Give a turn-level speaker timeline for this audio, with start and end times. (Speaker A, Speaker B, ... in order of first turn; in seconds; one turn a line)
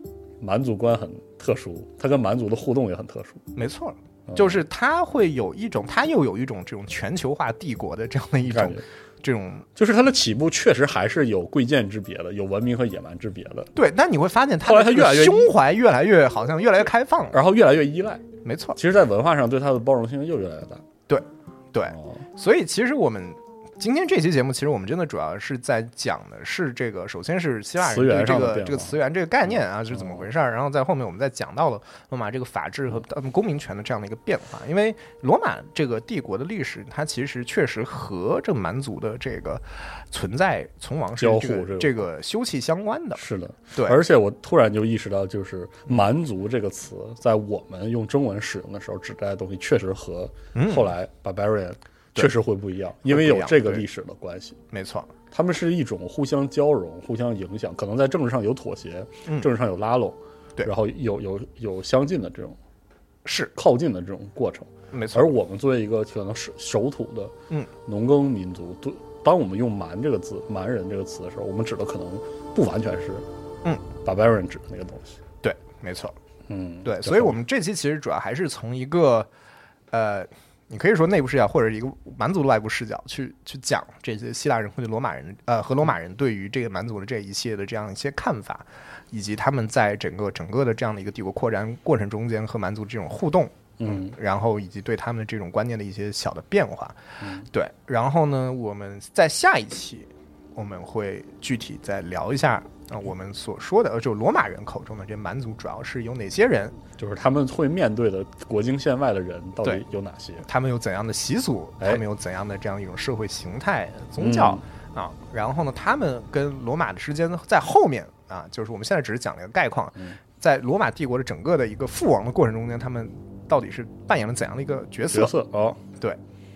Speaker A: 0.4-3.5
Speaker B: 3.5-9.7
Speaker A: 4.3-4.6
Speaker A: 8.5-8.8
Speaker A: 9.8-13.7
Speaker B: 13.7-17.4
Speaker A: 14.6-15.5
Speaker A: 17.3-18.2
Speaker B: 18.4-18.8
Speaker A: 18.8-20.8
Speaker B: 21.1-43.2
Speaker A: 21.9-22.2
Speaker A: 27.8-28.9
Speaker A: 29.9-30.2
Speaker A: 41.2-42.0
Speaker A: 43.2-54.6
Speaker B: 43.7-44.0
Speaker B: 50.5-50.9
Speaker B: 53.0-53.8
Speaker B: 54.7-55.1
Speaker A: 55.3-62.6
Speaker B: 63.2-63.5
Speaker A: 63.5-73.2
Speaker B: 64.9-65.3
Speaker A: 74.0-75.2
Speaker B: 75.4-76.2
Speaker A: 76.5-77.3
Speaker B: 76.8-79.3
Speaker B: 79.9-106.8
Speaker A: 93.8-94.1
Speaker A: 97.2-97.5
Speaker A: 106.9-110.5
Speaker B: 110.5-125.3
Speaker A: 114.2-114.6
Speaker A: 125.1-125.8